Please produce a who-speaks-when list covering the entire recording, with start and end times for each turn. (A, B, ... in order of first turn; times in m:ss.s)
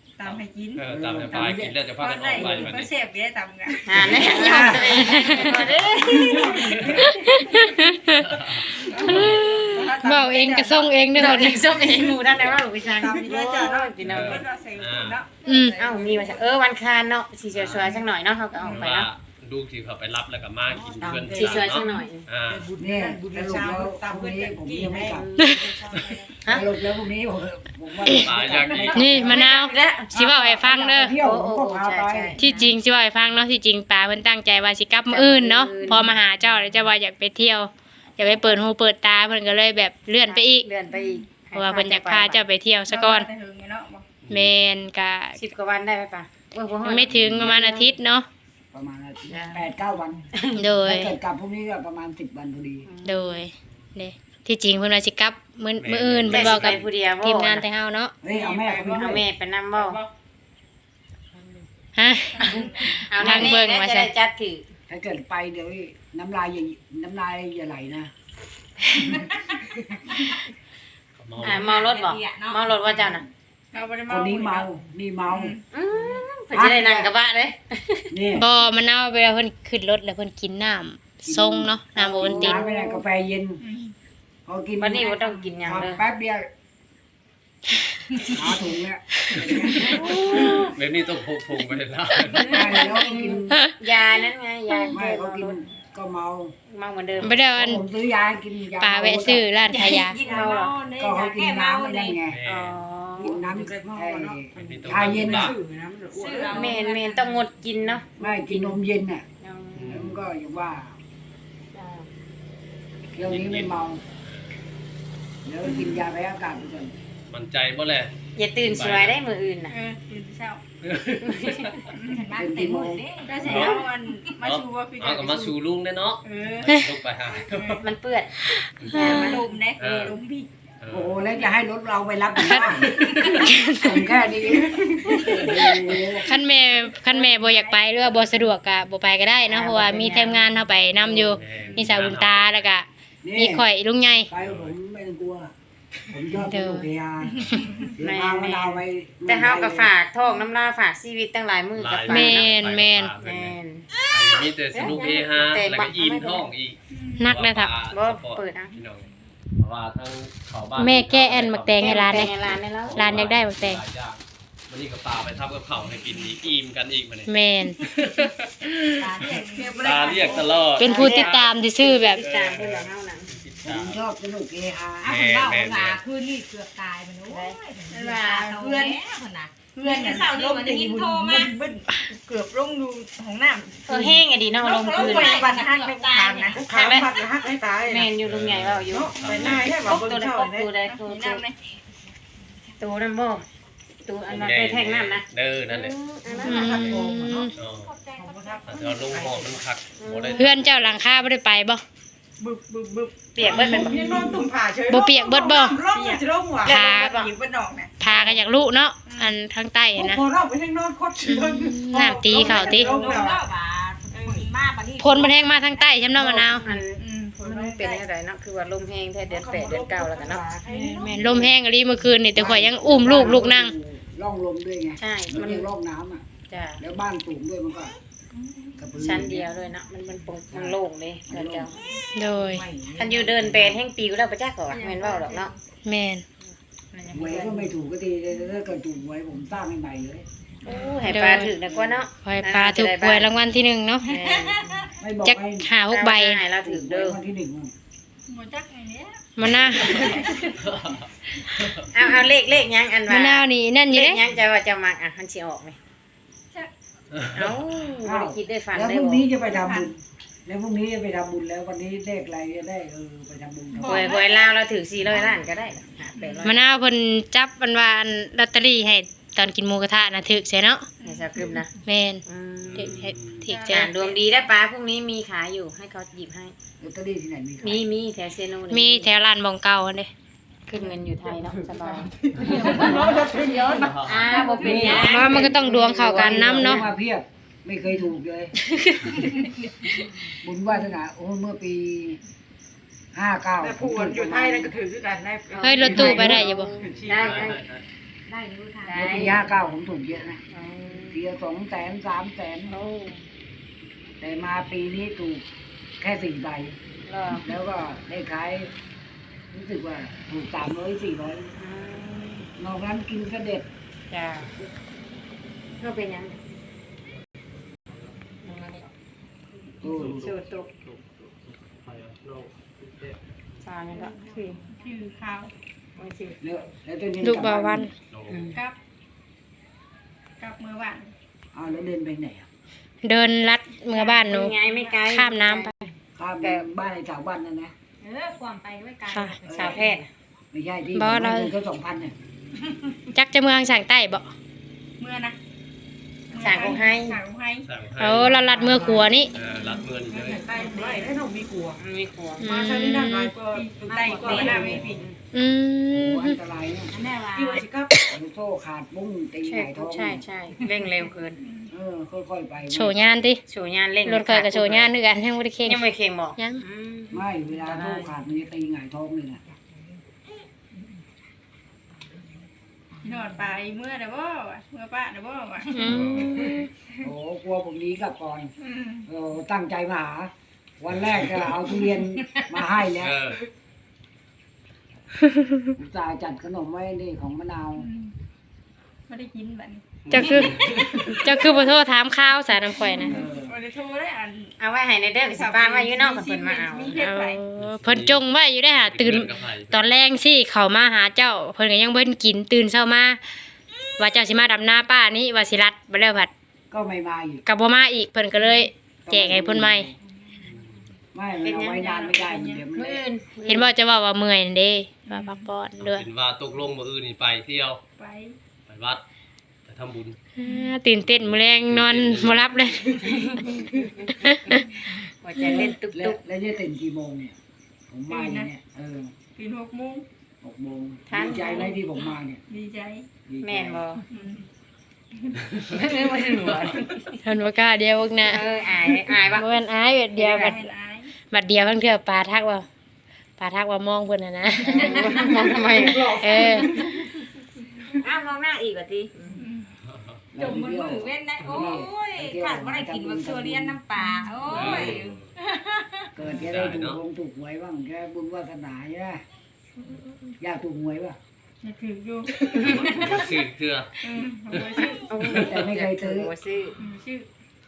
0:00.2-0:00.8 A
0:00.2-0:02.9 B
0:00.9-0:01.7 C
0:02.0-0:07.7 A
0:02.4-0:02.8 C
0:03.8-0:06.8 D
0:04.2-0:05.2 C
0:05.0-0:05.5 E
0:06.2-0:07.6 F
0:07.0-0:08.3 E
0:08.2-0:09.6 B
0:08.7-0:11.5 A
0:09.0-0:11.7 E
0:11.1-0:14.4 D
0:11.7-0:12.6 B
0:12.8-0:16.4 A
0:14.0-0:15.2 B
0:15.4-0:15.7 E
0:15.8-0:19.1 D
0:17.5-0:17.9 B
0:17.8-0:18.0 A
0:18.6-0:18.8 A
0:18.6-0:22.6 B
0:20.6-0:21.9 F
0:21.3-0:22.3 D
0:22.4-0:26.3 F
0:22.8-0:25.3 C
0:25.0-0:26.7 D
0:26.5-0:29.4 C
0:28.0-0:29.2 B
0:28.4-0:29.2 F
0:28.5-0:29.7 A
0:28.8-0:30.1 D
0:28.9-0:31.1 E
0:30.1-0:32.4 C
0:31.1-0:32.6 D
0:32.4-0:40.6 E
0:35.0-0:36.1 D
0:38.2-0:38.6 D
0:40.2-0:42.4 D
0:40.9-0:41.3 A
0:41.5-0:43.3 E
0:42.9-0:44.0 A
0:44.2-0:44.6 B
0:44.3-0:45.4 E
0:45.4-0:48.0 D
0:46.8-0:48.3 E
0:48.7-0:50.3 C
0:49.3-0:49.6 D
0:50.3-0:50.6 D
0:50.5-0:51.1 E
0:50.8-0:52.9 C
0:52.8-0:53.4 D
0:53.0-0:58.1 E
0:55.8-0:56.9 B
0:56.3-0:57.6 D
0:58.2-0:59.2 C
0:58.3-0:59.1 A
0:58.9-1:00.0 D
1:01.3-1:01.6 F
1:02.0-1:04.1 E
1:02.4-1:02.9 A
1:02.5-1:04.7 D
1:04.9-1:08.1 C
1:11.2-1:11.8 B
1:11.4-1:13.2 D
1:11.4-1:13.1 G
1:13.7-1:14.7 A
1:14.1-1:15.6 C
1:15.3-1:15.6 A
1:15.7-1:18.1 D
1:16.5-1:17.1 C
1:18.1-1:18.5 C
1:18.4-1:22.6 E
1:21.2-1:23.6 C
1:22.2-1:23.0 D
1:23.6-1:23.9 A
1:24.4-1:26.4 C
1:24.8-1:26.0 D
1:28.2-1:28.5 A
1:28.3-1:30.3 C
1:29.8-1:30.7 E
1:30.0-1:30.7 D
1:30.4-1:32.8 B
1:32.4-1:35.6 D
1:32.5-1:33.6 C
1:34.9-1:36.5 C
1:36.7-1:37.4 D
1:37.2-1:37.8 E
1:37.5-1:39.5 C
1:38.8-1:40.2 E
1:39.7-1:42.2 G
1:40.2-1:40.8 D
1:41.0-1:42.4 C
1:42.2-1:42.8 B
1:42.5-1:43.4 D
1:43.2-1:45.6 C
1:43.2-1:46.8 F
1:44.5-1:45.6 B
1:46.1-1:47.4 G
1:46.5-1:48.8 D
1:48.2-1:49.2 C
1:49.4-1:50.0 D
1:49.7-1:50.2 B
1:49.9-1:51.0 C
1:51.7-1:52.1 D
1:53.1-1:54.0 C
1:53.2-1:54.4 B
1:55.4-1:56.9 C
1:57.3-1:58.1 B
1:58.4-1:59.7 D
1:58.6-1:59.2 B
1:59.7-2:00.6 A
2:00.8-2:01.9 B
2:01.2-2:01.8 D
2:01.9-2:02.4 A
2:02.1-2:03.7 G
2:02.3-2:03.0 C
2:03.2-2:05.6 A
2:03.4-2:03.8 B
2:04.4-2:07.8 B
2:06.2-2:07.9 A
2:07.8-2:08.3 D
2:08.8-2:09.4 E
2:08.9-2:09.5 D
2:08.9-2:10.5 A
2:09.8-2:10.2 B
2:10.8-2:11.2 B
2:10.9-2:13.0 C
2:12.4-2:14.0 E
2:13.0-2:13.3 A
2:13.8-2:16.2 C
2:15.1-2:18.1 A
2:16.2-2:24.3 E
2:19.5-2:20.4 C
2:21.3-2:22.7 B
2:21.6-2:21.9 A
2:23.2-2:23.7 C
2:24.3-2:25.5 C
2:24.3-2:24.7 B
2:26.1-2:29.9 C
2:26.4-2:26.9 E
2:27.3-2:28.0 A
2:28.0-2:32.5 D
2:31.7-2:39.0 B
2:32.1-2:33.1 E
2:33.2-2:33.9 D
2:34.7-2:36.5 D
2:36.9-2:37.2 A
2:37.2-2:37.7 E
2:37.9-2:38.7 D
2:39.6-2:48.8 B
2:40.8-2:42.3 E
2:41.8-2:43.3 D
2:42.9-2:43.8 E
2:47.3-2:47.8 E
2:49.0-2:50.5 G
2:49.1-2:50.6 A
2:49.8-2:51.5 B
2:50.8-2:52.2 E
2:50.8-2:53.3 D
2:52.2-2:54.0 B
2:53.6-2:55.1 C
2:55.0-3:01.6 G
2:55.0-2:56.0 B
2:57.3-2:58.1 D
2:57.9-2:59.0 A
2:59.7-3:04.2 A
3:00.3-3:01.4 F
3:03.9-3:05.5 D
3:04.6-3:06.6 G
3:04.9-3:06.6 A
3:05.3-3:05.6 F
3:06.3-3:08.1 F
3:06.6-3:07.1 D
3:07.8-3:11.4 D
3:08.2-3:09.7 B
3:08.9-3:10.7 F
3:10.9-3:11.6 A
3:12.8-3:13.4 D
3:14.0-3:16.8 D
3:14.3-3:16.0 B
3:16.1-3:17.5 F
3:16.4-3:17.5 E
3:16.6-3:17.9 B
3:17.5-3:18.8 G
3:18.1-3:19.6 F
3:18.6-3:21.0 B
3:20.0-3:20.5 D
3:20.3-3:21.8 E
3:22.4-3:26.8 F
3:23.3-3:24.0 D
3:23.5-3:24.3 E
3:24.9-3:25.8 E
3:25.8-3:28.3 A
3:26.6-3:27.3 D
3:26.6-3:27.2 E
3:28.0-3:30.2 E
3:29.0-3:29.3 A
3:30.0-3:33.5 F
3:31.2-3:32.9 E
3:32.4-3:36.0 G
3:34.1-3:34.5 F
3:35.0-3:36.6 E
3:36.1-3:36.6 F
3:36.6-3:40.5 D
3:37.0-3:38.0 A
3:39.3-3:41.5 F
3:40.7-3:41.0 A
3:40.8-3:43.7 E
3:41.2-3:41.5 C
3:42.3-3:46.2 C
3:45.0-3:45.7 D
3:46.5-3:46.8 D
3:46.8-3:47.9 C
3:48.4-3:48.8 A
3:48.8-3:49.4 C
3:49.0-3:51.8 D
3:50.5-3:51.7 C
3:52.1-3:52.6 E
3:52.3-3:53.8 F
3:53.0-3:55.5 D
3:54.7-3:55.6 A
3:55.8-3:56.2 E
3:56.4-3:57.7 D
3:57.1-4:00.2 C
4:00.6-4:03.3 D
4:00.6-4:01.1 A
4:01.1-4:01.5 E
4:02.2-4:04.1 E
4:04.0-4:04.8 D
4:04.1-4:04.9 A
4:05.0-4:05.7 C
4:05.2-4:06.4 E
4:05.9-4:07.2 D
4:06.6-4:07.7 C
4:08.3-4:10.6 A
4:09.4-4:10.2 E
4:10.6-4:11.1 B
4:11.6-4:12.7 B
4:11.9-4:15.8 D
4:13.1-4:14.2 E
4:17.1-4:17.6 B
4:17.3-4:19.2 D
4:18.0-4:24.1 C
4:19.4-4:19.9 A
4:23.7-4:24.5 A
4:23.8-4:26.6 D
4:26.1-4:26.6 A
4:26.4-4:30.9 E
4:31.0-4:31.6 A
4:31.0-4:31.7 D
4:31.8-4:32.2 E
4:32.2-4:33.1 D
4:32.6-4:33.4 B
4:32.8-4:33.9 E
4:33.4-4:34.5 A
4:33.7-4:36.5 D
4:36.8-4:37.8 C
4:37.6-4:39.1 D
4:38.7-4:40.1 E
4:40.7-4:43.1 D
4:41.2-4:45.2 F
4:42.4-4:43.6 G
4:43.7-4:44.3 B
4:44.0-4:46.9 D
4:44.6-4:48.5 C
4:44.7-4:46.8 E
4:48.6-4:49.3 E
4:50.4-4:52.2 C
4:53.1-4:54.7 C
4:53.6-4:57.6 F
4:55.5-4:57.6 D
4:55.6-4:56.7 E
4:55.9-4:56.4 C
4:56.8-4:57.8 B
4:58.3-4:59.4 G
4:58.8-4:59.4 D
4:58.9-5:00.4 C
5:00.5-5:01.2 D
5:01.1-5:02.8 C
5:02.7-5:03.2 D
5:04.2-5:05.4 C
5:06.0-5:06.8 C
5:07.0-5:07.4 D
5:07.4-5:08.7 C
5:09.5-5:11.5 C
5:11.6-5:12.5 D
5:12.6-5:13.7 C
5:14.1-5:14.5 D
5:15.8-5:16.4 D
5:18.4-5:18.9 D
5:19.8-5:20.3 C
5:19.8-5:23.2 B
5:20.1-5:20.7 D
5:23.6-5:24.6 D
5:24.7-5:25.5 A
5:26.0-5:26.4 D
5:26.4-5:27.9 C
5:27.2-5:27.9 E
5:28.1-5:28.6 B
5:28.3-5:28.6 D
5:30.4-5:31.1 A
5:31.5-5:32.5 C
5:33.0-5:34.5 E
5:33.9-5:35.0 A
5:34.2-5:36.6 D
5:35.0-5:35.7 E
5:36.2-5:37.7 C
5:38.0-5:40.0 G
5:39.1-5:39.3 E
5:39.5-5:39.8 C
5:39.5-5:40.1 D
5:40.5-5:42.1 C
5:40.9-5:41.5 E
5:43.1-5:44.3 E
5:45.0-5:45.4 A
5:46.3-5:47.7 A
5:46.4-5:47.2 D
5:47.6-5:48.5 B
5:48.0-5:49.3 E
5:48.2-5:49.8 A
5:48.6-5:49.0 F
5:49.3-5:50.4 B
5:50.1-5:51.8 F
5:50.7-5:51.0 G
5:51.8-5:52.4 D
5:52.4-5:55.1 F
5:52.4-5:53.3 E
5:53.5-5:54.9 A
5:53.9-5:54.8 G
5:54.5-5:55.0 C
5:55.3-5:56.4 E
5:55.9-5:56.9 C
5:56.9-5:57.6 G
5:57.2-5:58.0 F
5:58.1-6:00.2 C
5:59.4-6:01.4 D
6:01.4-6:01.7 A
6:01.7-6:02.9 C
6:02.7-6:03.4 E
6:03.5-6:04.9 D
6:04.0-6:05.8 E
6:05.6-6:08.1 D
6:06.4-6:06.6 E
6:07.1-6:09.4 C
6:13.0-6:17.1 A
6:15.7-6:16.6 E
6:15.8-6:16.5 B
6:17.0-6:18.5 C
6:18.6-6:19.1 A
6:19.1-6:23.2 C
6:21.0-6:21.5 B
6:23.0-6:23.4 B
6:25.3-6:25.7 E
6:25.8-6:27.9 C
6:27.8-6:28.1 A
6:29.1-6:31.0 A
6:30.1-6:31.2 B
6:30.1-6:33.2 E
6:32.9-6:34.5 A
6:33.1-6:33.5 C
6:34.6-6:37.0 D
6:35.2-6:37.4 A
6:37.0-6:43.2 E
6:37.6-6:39.9 B
6:44.0-6:46.3 E
6:46.7-6:47.4 C
6:47.4-6:49.9 E
6:49.0-6:49.9 C
6:50.4-6:50.8 B
6:51.1-6:53.0 C
6:51.4-6:51.9 D
6:51.7-6:52.6 A
6:52.7-6:53.7 D
6:53.4-6:56.0 E
6:55.1-6:55.4 A
6:55.8-6:57.8 B
6:58.0-6:58.4 A
6:58.7-6:59.0 B
6:59.6-7:00.2 B
7:00.4-7:03.0 E
7:00.4-7:00.7 A
7:01.0-7:02.9 B
7:03.0-7:04.6 D
7:04.2-7:04.6 E
7:05.2-7:06.2 D
7:05.4-7:07.4 C
7:07.9-7:09.1 C
7:08.1-7:08.5 A
7:09.4-7:10.0 A
7:10.4-7:12.4 C
7:11.1-7:11.8 D
7:12.5-7:13.0 A
7:13.3-7:13.8 C
7:13.4-7:14.0 D
7:14.1-7:14.4 A
7:15.7-7:17.2 D
7:17.2-7:18.4 E
7:18.2-7:19.6 D
7:19.3-7:20.6 E
7:20.2-7:21.1 A
7:20.2-7:20.6 D
7:21.3-7:22.6 E
7:23.4-7:25.3 E
7:24.7-7:24.9 C
7:24.7-7:27.1 D
7:24.8-7:25.3 G
7:25.4-7:26.9 F
7:26.2-7:26.7 E
7:28.0-7:29.3 D
7:28.0-7:29.1 G
7:29.3-7:29.7 A
7:29.8-7:30.2 B
7:30.3-7:33.8 C
7:30.4-7:36.3 G
7:34.0-7:34.8 A
7:34.4-7:35.3 B
7:34.5-7:34.9 C
7:36.1-7:39.2 C
7:36.3-7:37.0 B
7:40.4-7:41.2 C
7:41.6-7:43.3 A
7:42.5-7:43.9 B
7:44.0-7:45.2 A
7:44.5-7:45.5 B
7:45.1-7:46.8 D
7:45.4-7:46.3 C
7:46.8-7:47.3 A